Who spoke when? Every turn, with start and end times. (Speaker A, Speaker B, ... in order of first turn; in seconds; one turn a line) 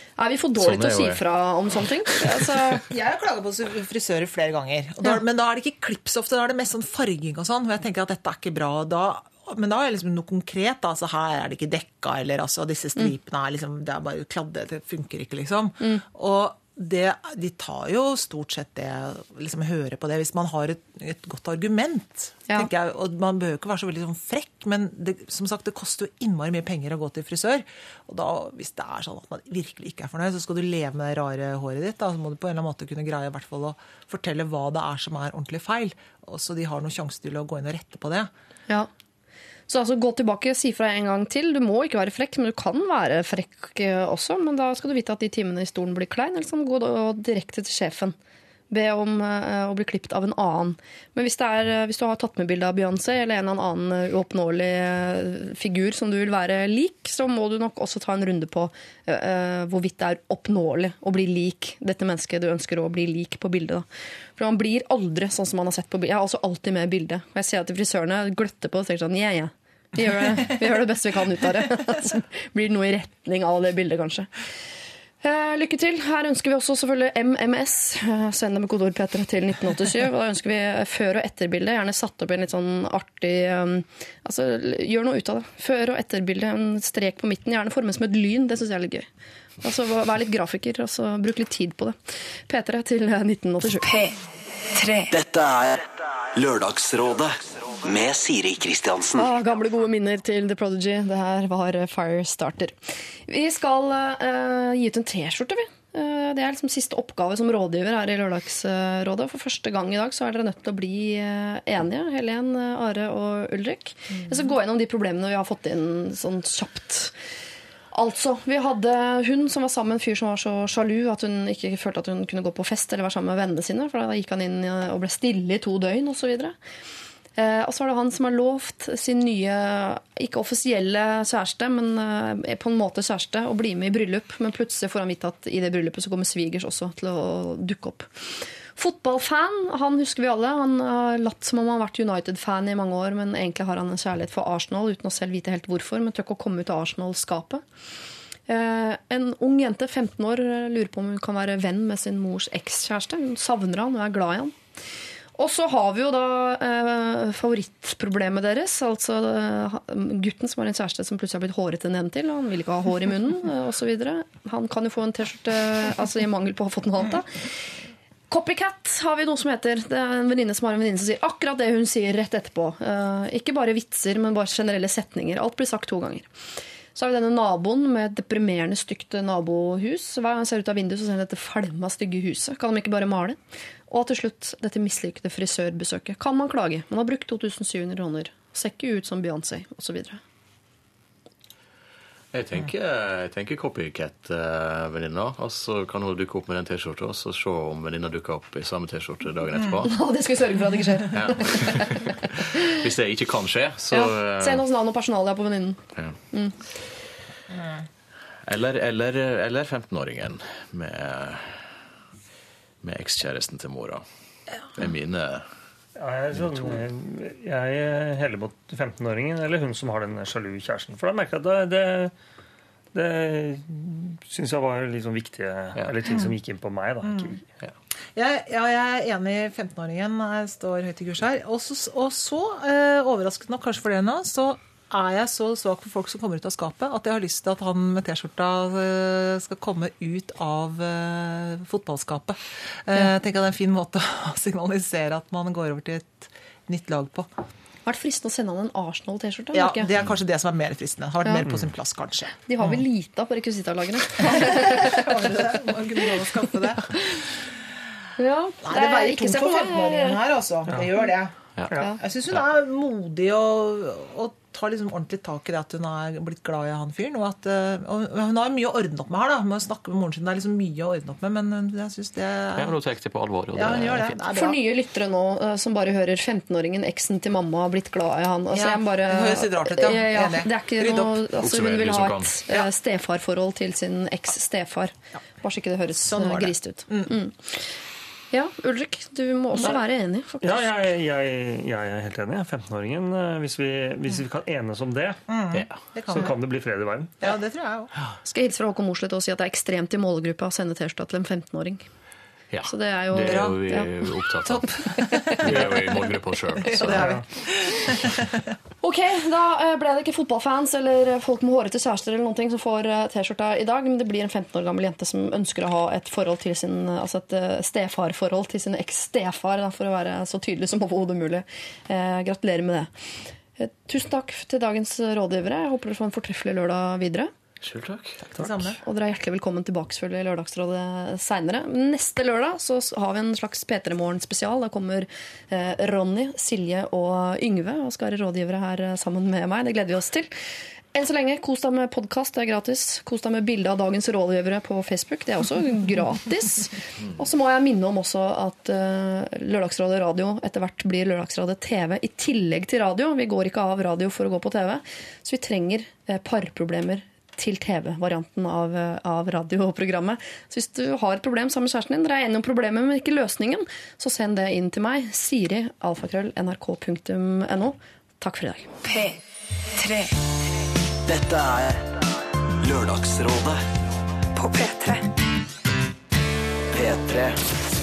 Speaker A: 0.2-2.8
Speaker B: 0.6-1.2
Speaker C: 2.9-38.3
Speaker A: 39.7-48.1
Speaker A: 48.7-63.9
Speaker A: 64.4-74.3
Speaker A: 75.2-89.1
Speaker A: 89.6-92.0
Speaker A: 92.5-93.9
Speaker D: 93.8-94.1
Speaker D: 94.7-95.1
Speaker E: 95.1-99.3
Speaker A: 99.1-102.7
Speaker A: 103.3-117.1
Speaker A: 117.9-126.5
Speaker A: 127.4-138.1
Speaker A: 138.8-147.6
Speaker A: 148.5-154.5
Speaker A: 155.4-167.3
Speaker A: 168.3-176.2
Speaker A: 176.9-183.4
Speaker A: 183.9-190.2
Speaker B: 192.3-199.9
Speaker A: 199.8-202.1
Speaker B: 201.1-204.6
Speaker A: 203.9-205.8
Speaker B: 208.4-211.8
Speaker B: 212.8-214.0
Speaker B: 214.7-215.5
Speaker F: 216.0-222.1
Speaker B: 216.3-216.8
Speaker F: 222.9-227.4
Speaker C: 227.0-227.3
Speaker C: 228.2-247.3
Speaker A: 247.8-249.9
Speaker C: 249.5-252.8
Speaker A: 252.5-255.2
Speaker C: 254.2-257.0
Speaker A: 258.2-260.2
Speaker C: 258.6-261.3
Speaker C: 262.0-272.8
Speaker B: 272.5-274.2
Speaker C: 273.5-274.6
Speaker A: 274.3-287.6
Speaker C: 278.5-281.2
Speaker B: 281.4-282.4
Speaker C: 286.0-287.1
Speaker A: 288.3-290.7
Speaker F: 290.4-295.2
Speaker C: 295.3-296.3
Speaker B: 295.5-295.8
Speaker F: 296.1-297.1
Speaker C: 297.2-297.9
Speaker A: 298.2-301.8
Speaker B: 302.5-307.2
Speaker A: 302.6-303.9
Speaker C: 303.2-303.6
Speaker C: 304.4-306.0
Speaker C: 306.6-308.4
Speaker A: 308.8-322.9
Speaker A: 323.6-327.3
Speaker B: 327.6-328.2
Speaker C: 328.2-328.8
Speaker A: 328.8-340.3
Speaker A: 340.9-368.8
Speaker D: 368.8-369.1
Speaker D: 369.8-370.1
Speaker E: 371.1-371.9
Speaker E: 372.6-373.6
Speaker D: 374.3-375.0
Speaker E: 376.7-377.4